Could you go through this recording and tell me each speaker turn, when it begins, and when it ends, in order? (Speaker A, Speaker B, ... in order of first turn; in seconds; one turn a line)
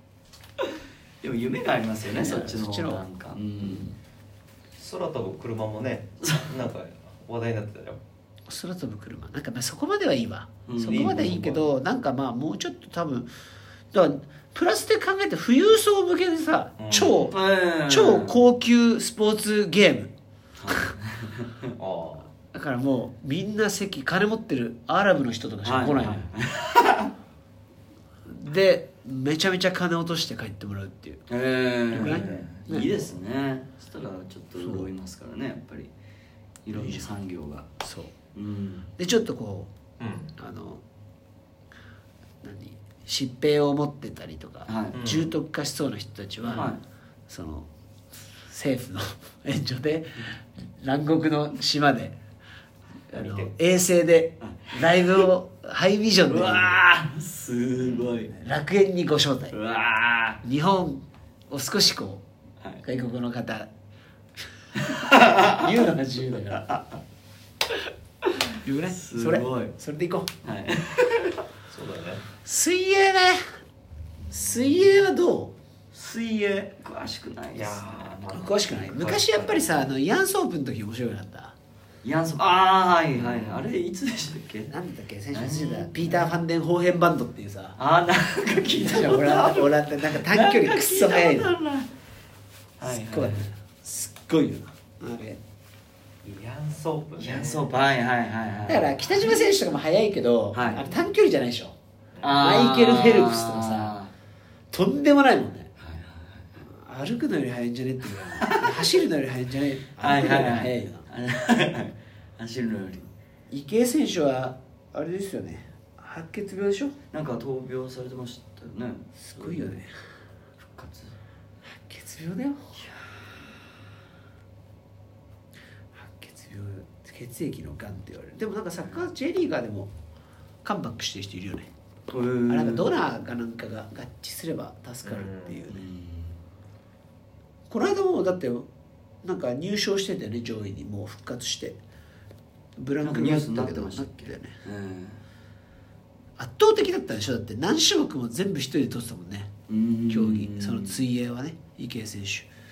Speaker A: 1.2-3.9
Speaker B: 2.1-3.0
Speaker B: 3.6-3.9
Speaker C: 4.8-8.0
Speaker B: 8.5-13.3
Speaker A: 10.7-11.4
Speaker C: 10.8-11.7
Speaker B: 13.9-20.1
Speaker C: 16.8-17.3
Speaker A: 17.3-18.4
Speaker A: 20.6-21.5
Speaker C: 21.8-22.3
Speaker B: 22.5-26.3
Speaker A: 25.6-27.1
Speaker B: 28.3-31.2
Speaker A: 31.3-35.9
Speaker B: 31.9-33.0
Speaker C: 32.0-32.5
Speaker B: 34.6-34.9
Speaker A: 36.6-37.7
Speaker B: 36.7-37.1
Speaker B: 37.8-38.1
Speaker A: 38.3-38.9
Speaker B: 39.0-39.7
Speaker C: 40.0-40.3
Speaker B: 40.4-40.8
Speaker B: 42.4-47.7
Speaker A: 44.6-45.0
Speaker C: 44.9-45.3
Speaker A: 46.5-46.8
Speaker B: 48.3-52.1
Speaker B: 53.1-56.8
Speaker C: 53.1-53.5
Speaker A: 54.4-55.3
Speaker A: 56.3-58.3
Speaker B: 57.9-59.6
Speaker A: 59.5-60.4
Speaker B: 60.4-62.2
Speaker B: 62.8-63.7
Speaker A: 65.0-65.5
Speaker B: 65.1-66.7
Speaker B: 68.5-70.3
Speaker A: 68.9-69.7
Speaker A: 70.4-71.4
Speaker C: 71.7-72.2
Speaker B: 72.4-73.4
Speaker B: 74.3-75.5
Speaker A: 74.3-74.8
Speaker A: 75.9-78.7
Speaker C: 77.5-79.9
Speaker B: 78.3-81.5
Speaker A: 82.0-84.7
Speaker C: 83.2-83.6
Speaker B: 84.7-87.8
Speaker A: 85.3-86.4
Speaker A: 87.8-91.9
Speaker B: 88.7-91.5
Speaker A: 92.8-93.5
Speaker B: 92.8-95.4
Speaker C: 96.2-97.7
Speaker A: 97.2-99.4
Speaker B: 98.7-101.8
Speaker A: 100.5-101.0
Speaker C: 102.1-102.4
Speaker A: 102.2-104.1
Speaker B: 102.3-103.9
Speaker B: 104.7-105.7
Speaker A: 105.8-106.5
Speaker B: 106.6-111.1
Speaker A: 108.4-108.8
Speaker A: 110.0-113.1
Speaker B: 113.5-117.0
Speaker A: 117.1-119.8
Speaker B: 119.2-119.9
Speaker A: 120.6-121.2
Speaker B: 121.7-122.8
Speaker A: 122.8-123.2
Speaker B: 125.9-129.9
Speaker B: 130.6-131.7
Speaker A: 132.1-132.9
Speaker B: 132.5-135.9
Speaker C: 135.0-135.6
Speaker A: 135.7-136.4
Speaker B: 137.7-138.7
Speaker B: 139.2-141.8
Speaker B: 142.8-144.6
Speaker A: 143.0-145.2
Speaker B: 146.4-149.5
Speaker A: 149.7-151.0
Speaker B: 150.1-152.5